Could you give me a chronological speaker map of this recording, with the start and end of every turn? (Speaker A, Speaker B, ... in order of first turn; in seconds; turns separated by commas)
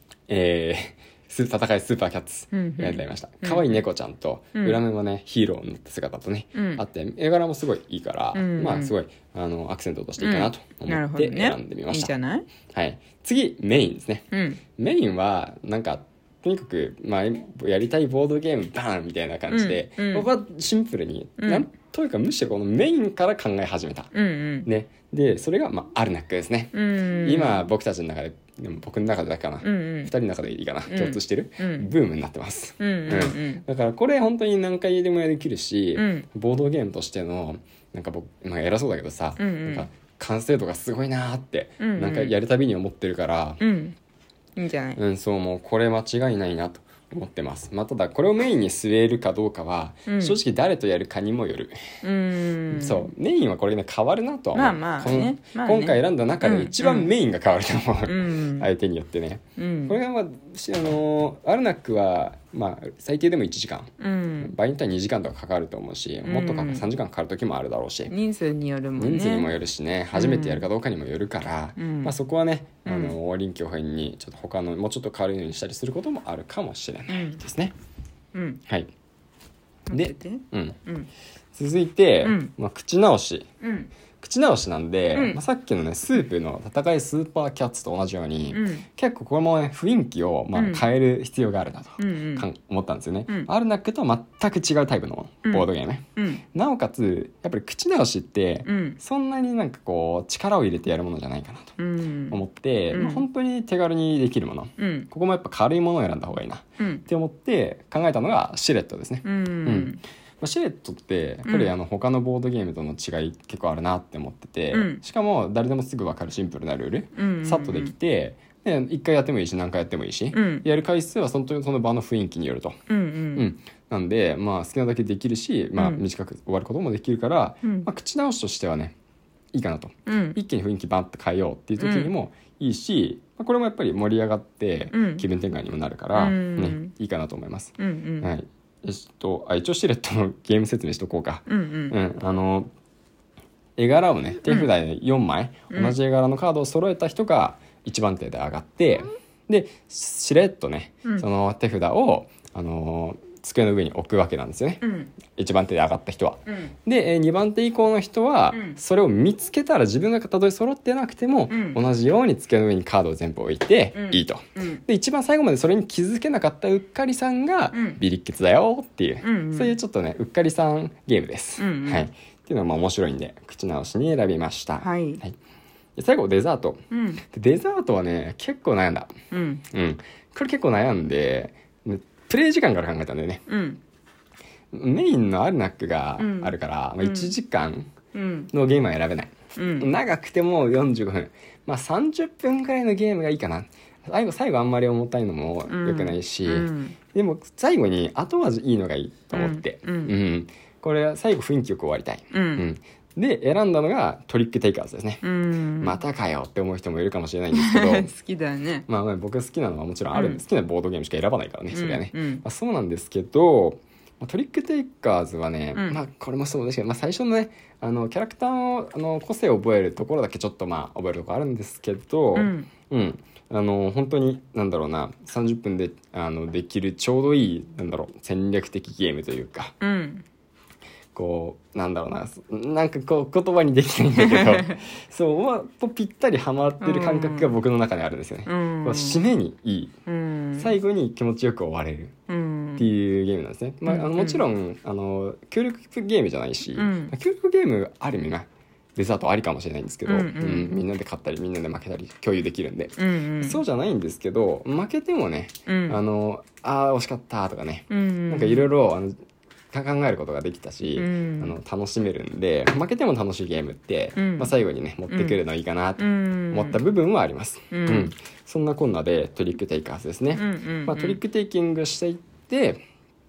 Speaker A: 0.3-12.1, Speaker B: 2.5-3.8, Speaker B: 6.5-6.8, Speaker B: 8.3-8.9, Speaker B: 10.2-12.5, Speaker A: 12.7-14.2, Speaker B: 14.3-14.6, Speaker A: 14.8-24.1, Speaker B: 19.5-20.3, Speaker B: 21.4-21.7, Speaker B: 24.1-24.7, Speaker A: 24.6-43.6, Speaker B: 26.7-27.7, Speaker B: 29.6-30.1, Speaker B: 30.9-31.9, Speaker B: 32.8-33.6, Speaker B: 36.0-36.3, Speaker B: 39.4-39.9, Speaker B: 41.8-42.3, Speaker B: 43.6-44.0, Speaker B: 44.6-45.0, Speaker A: 45.0-51.8, Speaker B: 50.1-50.4, Speaker B: 52.0-53.1, Speaker A: 52.7-63.9, Speaker B: 54.5-57.1, Speaker B: 58.1-58.7, Speaker B: 59.6-60.0, Speaker B: 64.0-64.5, Speaker A: 64.4-68.1, Speaker B: 66.2-66.8, Speaker B: 68.1-69.5, Speaker A: 69.0-77.7, Speaker B: 70.1-70.7, Speaker B: 71.8-72.1, Speaker B: 72.8-73.2, Speaker B: 77.1-77.4, Speaker B: 78.3-78.6, Speaker B: 79.9-81.1, Speaker A: 79.9-80.8, Speaker A: 81.5-83.5, Speaker B: 82.2-82.5, Speaker B: 83.6-83.9, Speaker A: 84.2-101.7, Speaker B: 85.1-85.4, Speaker B: 88.5-88.8, Speaker B: 90.5-90.8, Speaker B: 92.0-92.5, Speaker B: 95.5-96.4, Speaker B: 98.7-99.0, Speaker B: 101.8-102.4, Speaker A: 102.3-122.8, Speaker B: 102.9-103.2, Speaker B: 104.8-105.1, Speaker B: 106.8-107.0, Speaker B: 109.2-110.0, Speaker B: 111.5-111.7, Speaker B: 114.7-115.0, Speaker B: 117.2-117.9, Speaker B: 120.3-120.7, Speaker B: 122.9-123.5, Speaker A: 123.3-128.9, Speaker B: 125.8-126.0, Speaker A: 129.5-142.7, Speaker B: 130.1-130.4, Speaker B: 131.8-132.1, Speaker B: 134.9-135.2, Speaker B: 136.1-136.9, Speaker B: 137.8-138.3, Speaker B: 141.5-141.9, Speaker A: 143.8-175.4, Speaker B: 145.7-146.0, Speaker B: 154.8-155.1, Speaker B: 158.5-158.8, Speaker B: 161.5-161.8, Speaker B: 163.9-164.8, Speaker B: 167.7-168.0, Speaker B: 169.2-169.8, Speaker B: 171.6-172.1, Speaker B: 174.8-175.2, Speaker A: 176.0-179.1, Speaker B: 176.9-177.2, Speaker B: 179.3-179.6, Speaker A: 179.7-183.4, Speaker B: 183.5-183.8, Speaker A: 184.7-187.9, Speaker B: 186.2-187.3, Speaker B: 188.1-188.5, Speaker A: 188.5-205.2, Speaker B: 189.6-189.9, Speaker B: 195.7-197.0, Speaker B: 199.3-200.1, Speaker B: 202.3-202.6, Speaker B: 205.2-206.0, Speaker A: 205.8-208.1, Speaker B: 207.5-208.9, Speaker A: 208.9-229.8, Speaker B: 210.1-210.4, Speaker B: 211.7-212.4, Speaker B: 215.7-216.0, Speaker B: 222.3-222.7, Speaker B: 229.8-230.2, Speaker A: 231.1-239.9, Speaker B: 234.2-234.7, Speaker B: 236.8-237.6, Speaker B: 238.5-239.2, Speaker B: 240.1-240.7, Speaker A: 240.6-242.1, Speaker B: 242.3-242.9, Speaker A: 242.8-259.2, Speaker B: 243.9-244.4, Speaker B: 246.7-247.1, Speaker B: 250.1-250.8, Speaker B: 253.0-253.6, Speaker B: 255.7-256.0, Speaker B: 257.9-258.7, Speaker A: 259.7-272.8, Speaker B: 261.0-261.5, Speaker B: 264.1-264.5, Speaker B: 265.1-265.4, Speaker B: 266.0-266.8, Speaker B: 267.7-268.1, Speaker B: 270.3-271.2